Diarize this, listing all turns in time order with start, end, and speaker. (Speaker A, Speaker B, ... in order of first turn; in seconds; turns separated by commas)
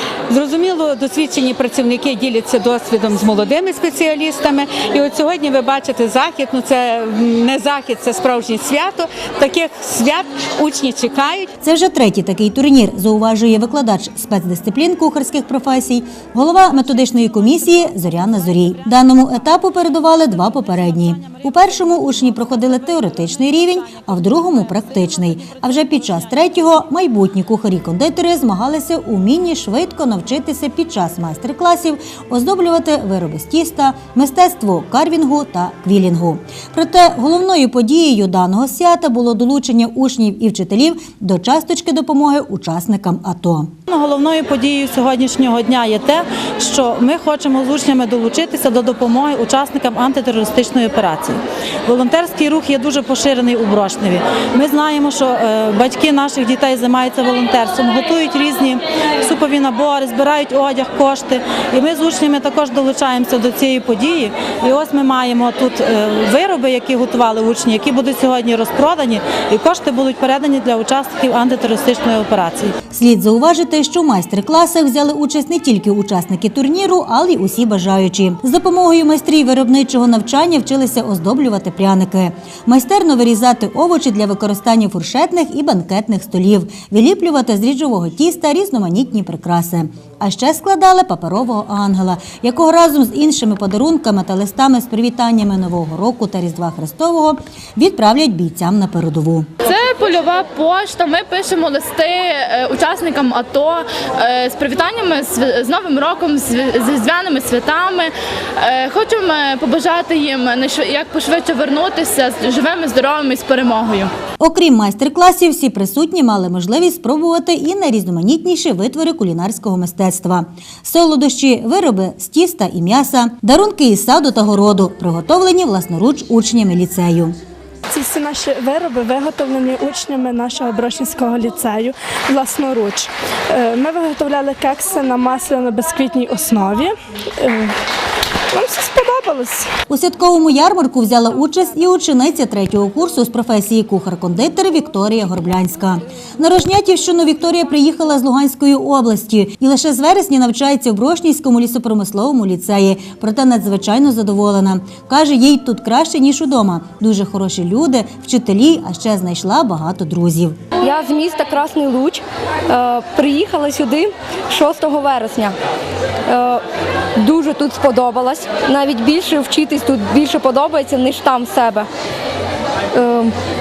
Speaker A: 0.3-11.5, Speaker B: 11.6-43.7, Speaker C: 43.9-72.8, Speaker B: 72.9-99.5, Speaker D: 99.7-114.1, Speaker B: 114.4-127.3, Speaker E: 127.9-137.7, Speaker E: 138.5-139.7, Speaker B: 139.9-160.6, Speaker F: 160.8-165.5, Speaker F: 166.3-166.6, Speaker F: 167.2-171.9, Speaker F: 173.0-173.3